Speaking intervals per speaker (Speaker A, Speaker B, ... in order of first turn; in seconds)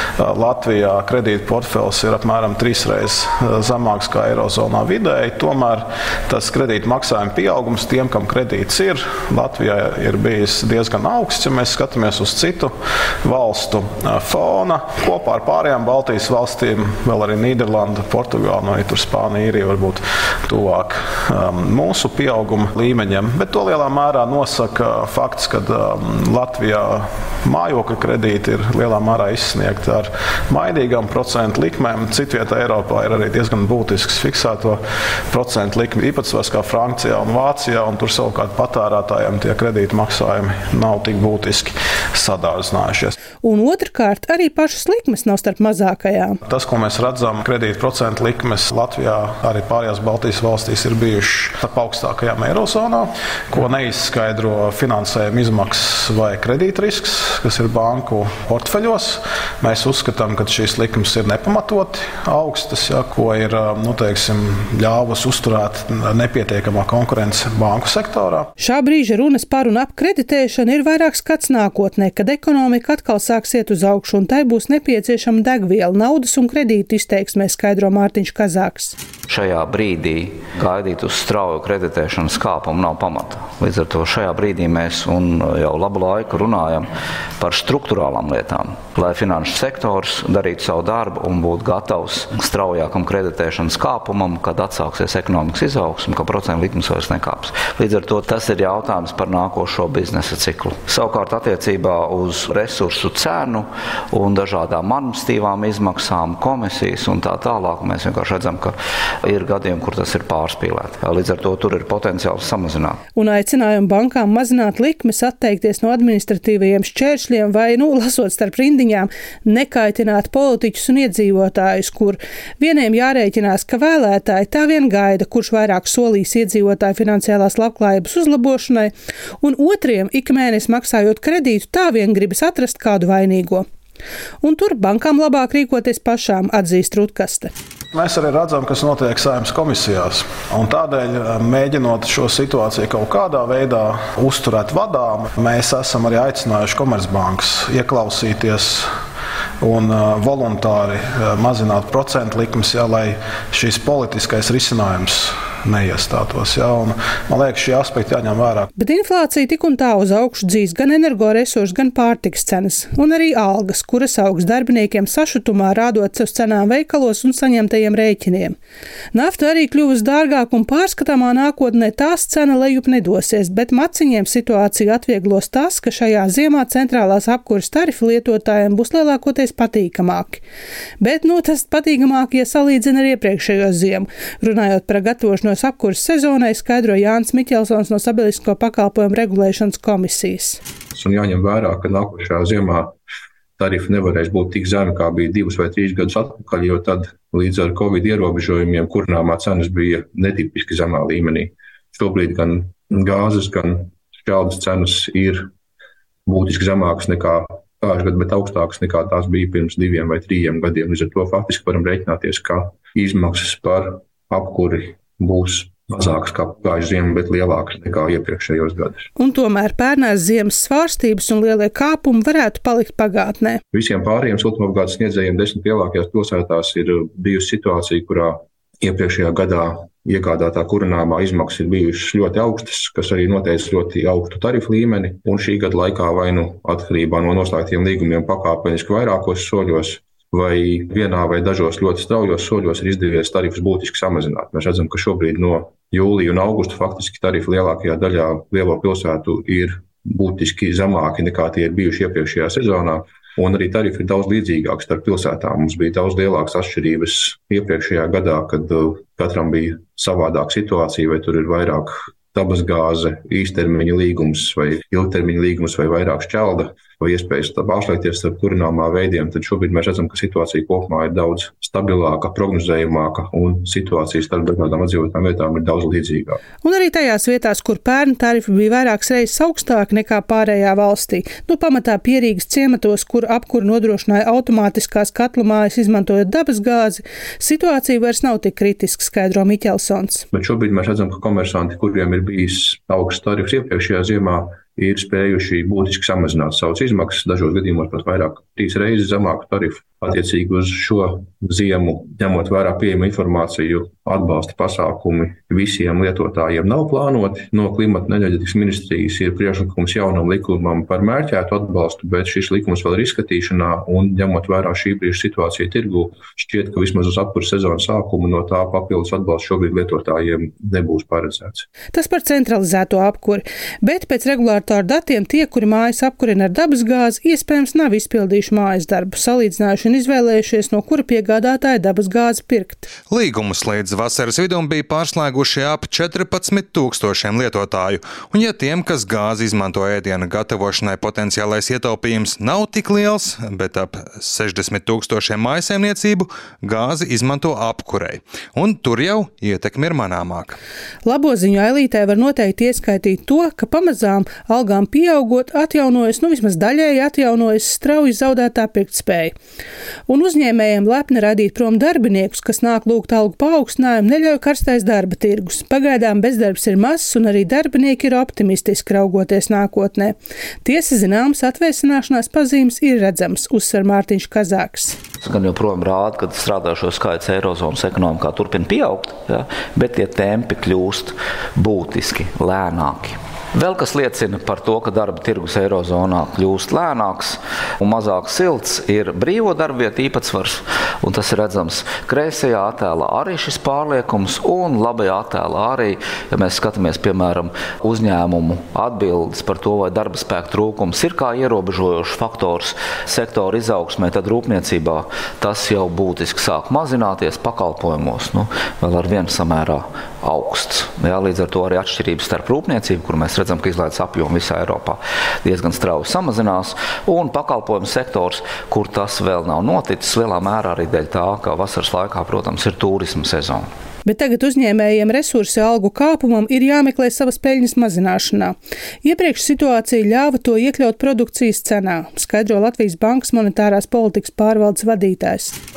Speaker A: 0.2-43.1, 46.4-68.5, 137.9-148.9, 149.6-158.7
Speaker B: 43.4-46.4, 68.6-79.0, 113.1-133.6, 134.4-137.5, 158.8-168.6, 169.1-180.4, 181.0-190.6, 219.2-223.6, 276.6-290.2, 321.9-332.9, 351.0-359.3, 360.1-375.0, 424.0-435.5
Speaker C: 79.3-113.0, 375.2-423.7
Speaker D: 190.9-192.9, 193.6-205.5, 206.3-219.1, 223.7-276.4, 290.3-321.7
Speaker E: 333.1-350.6